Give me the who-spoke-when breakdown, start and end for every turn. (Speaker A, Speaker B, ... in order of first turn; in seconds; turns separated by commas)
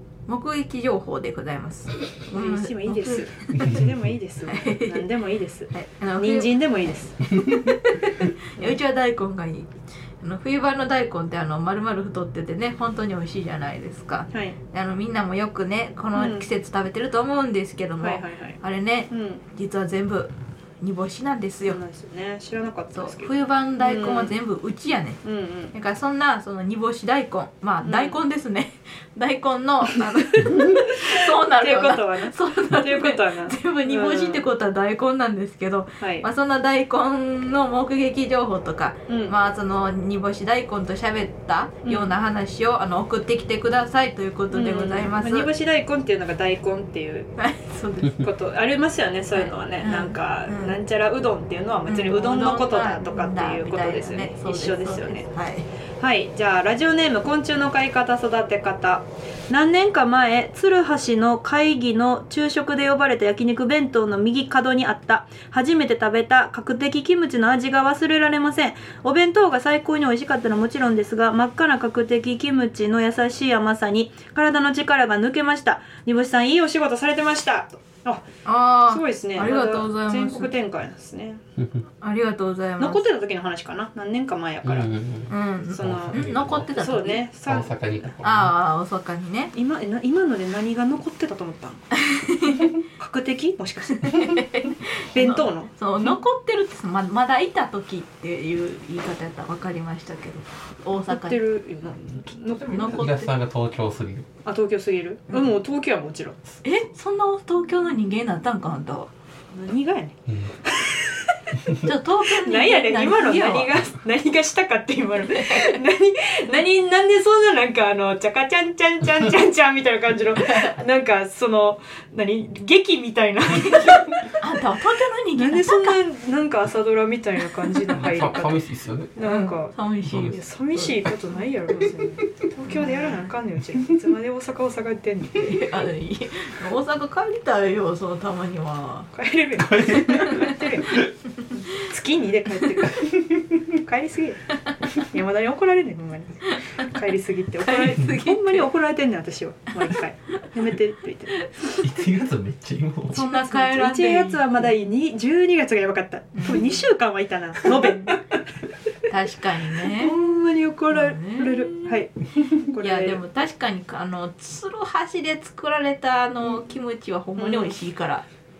Speaker A: 0.3-3.8, Speaker B: 2.3-7.4, Speaker A: 4.5-5.1, Speaker A: 5.7-6.6, Speaker A: 7.3-21.8, Speaker B: 16.1-16.5, Speaker B: 18.0-19.4, Speaker B: 21.6-24.3, Speaker A: 22.9-25.2, Speaker B: 25.2-25.7, Speaker A: 25.7-45.5, Speaker B: 27.8-28.2, Speaker B: 30.3-34.5, Speaker B: 36.0-36.3, Speaker B: 39.1-39.3, Speaker B: 41.8-42.1, Speaker B: 44.5-47.3, Speaker A: 47.4-48.3, Speaker B: 48.2-55.3, Speaker A: 49.3-50.8, Speaker A: 51.9-55.7, Speaker B: 56.0-78.2, Speaker A: 78.4-80.5, Speaker B: 78.9-81.4, Speaker C: 81.6-81.8, Speaker A: 82.0-83.0, Speaker B: 82.8-84.9, Speaker C: 84.6-86.7, Speaker A: 85.3-87.2, Speaker B: 85.7-87.8, Speaker C: 87.5-88.5, Speaker A: 88.2-89.5, Speaker B: 89.5-91.9, Speaker A: 91.9-92.7, Speaker B: 92.8-94.4, Speaker A: 94.0-101.4, Speaker B: 95.1-95.7, Speaker B: 101.1-103.0, Speaker C: 102.5-104.3, Speaker A: 102.7-103.3, Speaker B: 104.4-106.4, Speaker A: 106.6-109.1, Speaker B: 109.5-111.4, Speaker C: 110.3-110.5, Speaker A: 111.8-113.8, Speaker B: 112.3-124.3, Speaker A: 115.2-115.8, Speaker A: 120.3-120.7, Speaker A: 123.6-126.0, Speaker B: 125.3-128.6, Speaker A: 127.6-127.9, Speaker C: 128.0-129.2, Speaker B: 129.1-135.7, Speaker A: 129.2-131.2, Speaker C: 130.1-130.4, Speaker A: 132.7-133.3, Speaker A: 135.3-139.1, Speaker B: 139.1-151.4, Speaker C: 139.7-140.4, Speaker A: 140.0-140.6, Speaker A: 141.4-141.6, Speaker A: 146.5-146.8, Speaker A: 147.6-148.7, Speaker A: 151.4-151.8, Speaker C: 151.8-153.3, Speaker A: 153.1-154.5, Speaker B: 153.1-158.2, Speaker A: 156.3-156.8, Speaker A: 157.7-158.2, Speaker A: 159.1-160.2, Speaker B: 159.8-163.2, Speaker A: 160.9-162.0, Speaker A: 162.8-168.2, Speaker B: 167.4-167.8